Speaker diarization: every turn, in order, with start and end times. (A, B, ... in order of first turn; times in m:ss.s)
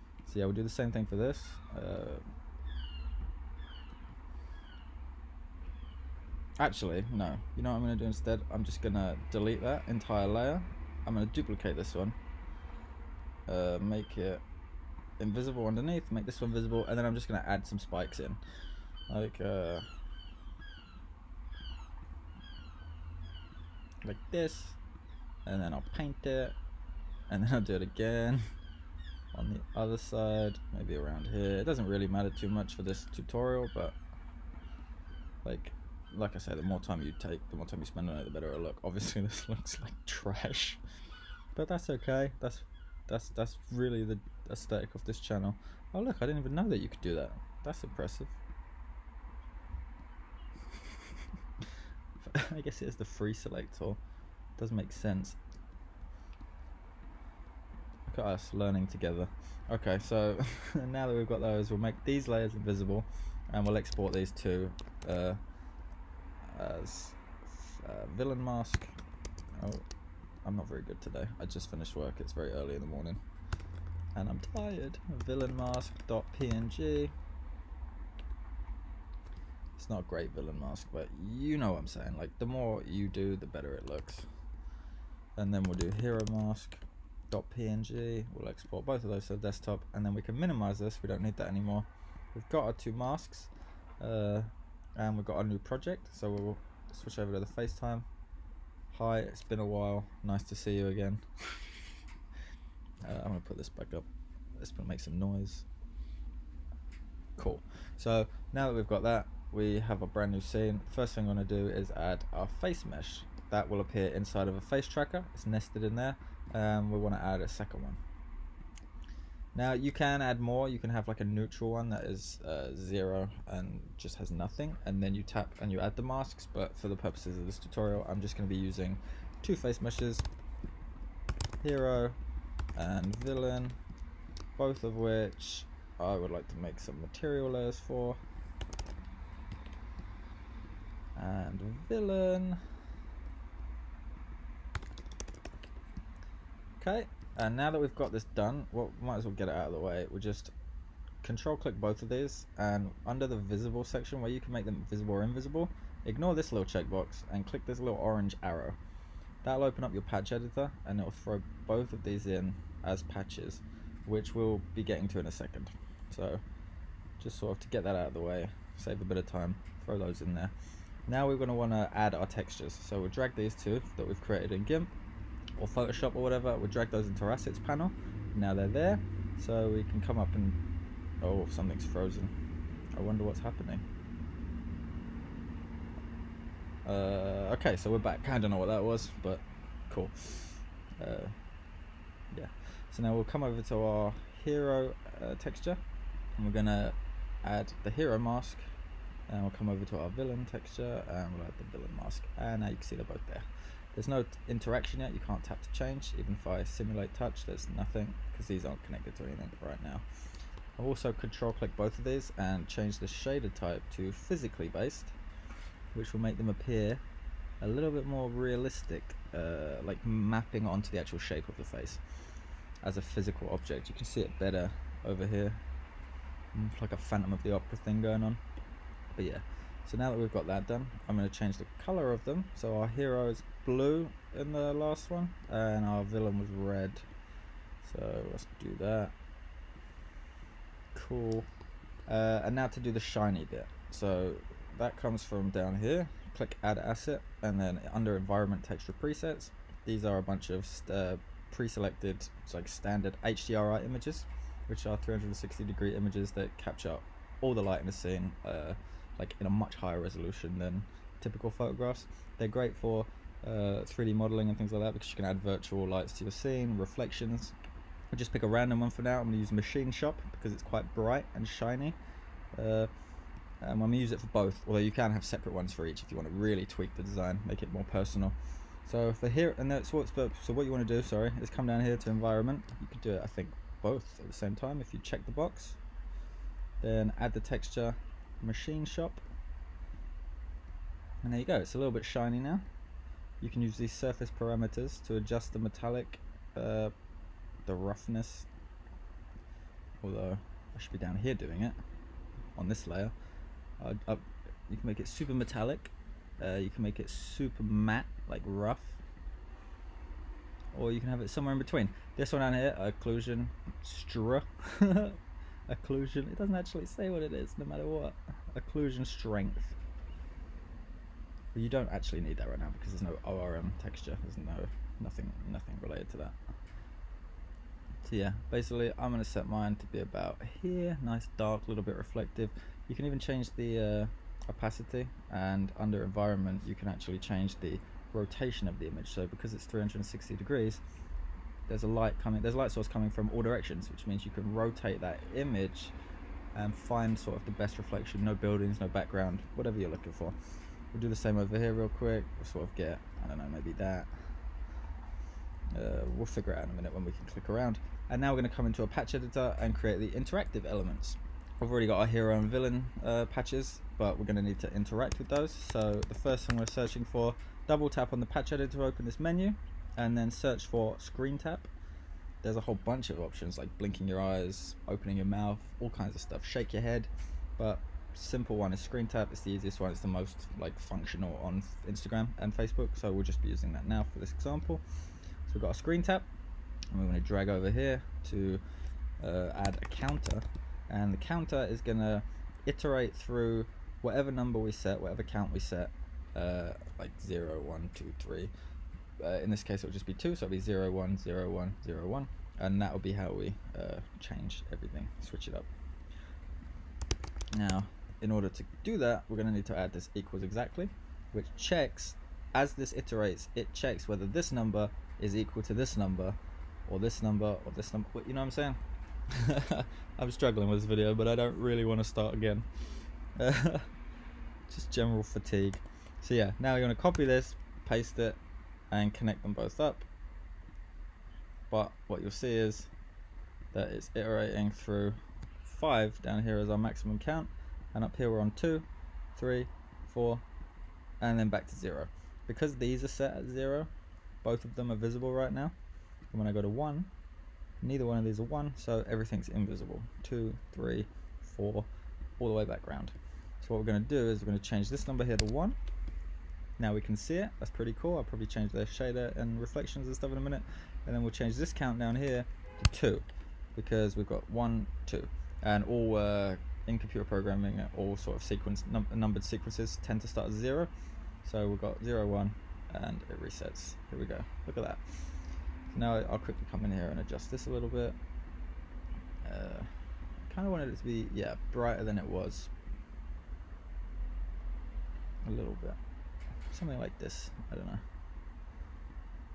0:00.2-0:02.2 A
0:06.6-0:12.2 A
0:13.5-0:14.4 A
0:15.2-0:18.4 A
0:19.1-0:19.8 A
0:24.0-0:24.8 A
0:25.5-0:26.6 A
0:27.3-0:28.4 A
0:29.3-0:34.0 A
0:35.4-0:40.8 A
0:41.5-0:48.4 A
0:52.2-0:54.0 A
0:54.6-0:55.4 A
0:58.1-1:05.4 A
1:06.4-1:08.9 A
1:09.5-1:09.8 A
1:10.4-1:13.2 A
1:14.2-1:17.1 A
1:19.8-1:24.2 A
1:25.4-1:38.0 A
1:38.9-1:41.2 A
1:43.0-1:44.1 A
1:44.6-1:45.7 A
1:47.4-1:58.0 A
1:59.5-2:10.2 A
2:11.6-2:12.2 A
2:12.8-2:13.8 A
2:14.6-2:18.2 A
2:21.2-2:22.6 A
2:26.8-2:30.5 A
2:31.2-2:38.8 A
2:39.4-2:46.4 A
2:47.2-2:50.5 A
2:51.1-2:55.0 A
2:55.6-3:00.6 A
3:01.2-3:02.3 A
3:03.0-3:03.8 A
3:06.8-3:11.3 A
3:12.3-3:15.8 A
3:16.4-3:18.6 A
3:19.3-3:30.0 A
3:30.8-3:35.2 A
3:35.9-3:37.0 A
3:37.6-3:42.0 A
3:42.8-3:45.6 A
3:46.5-3:48.4 A
3:49.2-3:57.0 A
3:57.8-3:59.1 A
4:00.9-4:01.5 A
4:02.1-4:27.5 A
4:28.1-4:32.0 A
4:32.6-4:32.9 A
4:33.6-4:45.8 A
4:46.8-4:49.2 A
4:51.2-4:52.6 A
4:53.4-4:56.9 A
4:57.6-4:58.5 A
5:00.0-5:01.8 A
5:02.6-5:03.1 A
5:03.8-5:09.0 A
5:10.7-5:19.8 A
5:21.5-5:26.4 A
5:28.0-5:40.8 A
5:41.7-5:46.0 A
5:46.6-5:50.4 A
5:50.9-5:54.1 A
5:55.7-6:11.7 A
6:12.4-6:24.8 A
6:25.5-6:26.3 A
6:26.9-6:28.6 A
6:29.2-6:38.5 A
6:39.2-6:45.7 A
6:47.5-6:58.8 A
6:59.3-7:02.7 A
7:03.4-7:03.9 A
7:04.7-7:08.4 A
7:08.9-7:10.1 A
7:11.7-7:12.9 A
7:13.7-7:20.4 A
7:21.2-7:23.9 A
7:24.4-7:25.8 A
7:26.3-7:27.1 A
7:27.8-7:31.9 A
7:32.4-7:35.8 A
7:36.8-7:50.9 A
7:51.4-7:55.4 A
7:55.9-7:58.2 A
7:59.4-7:59.9 A
8:00.5-8:02.7 A
8:05.4-8:06.0 A
8:06.7-8:08.0 A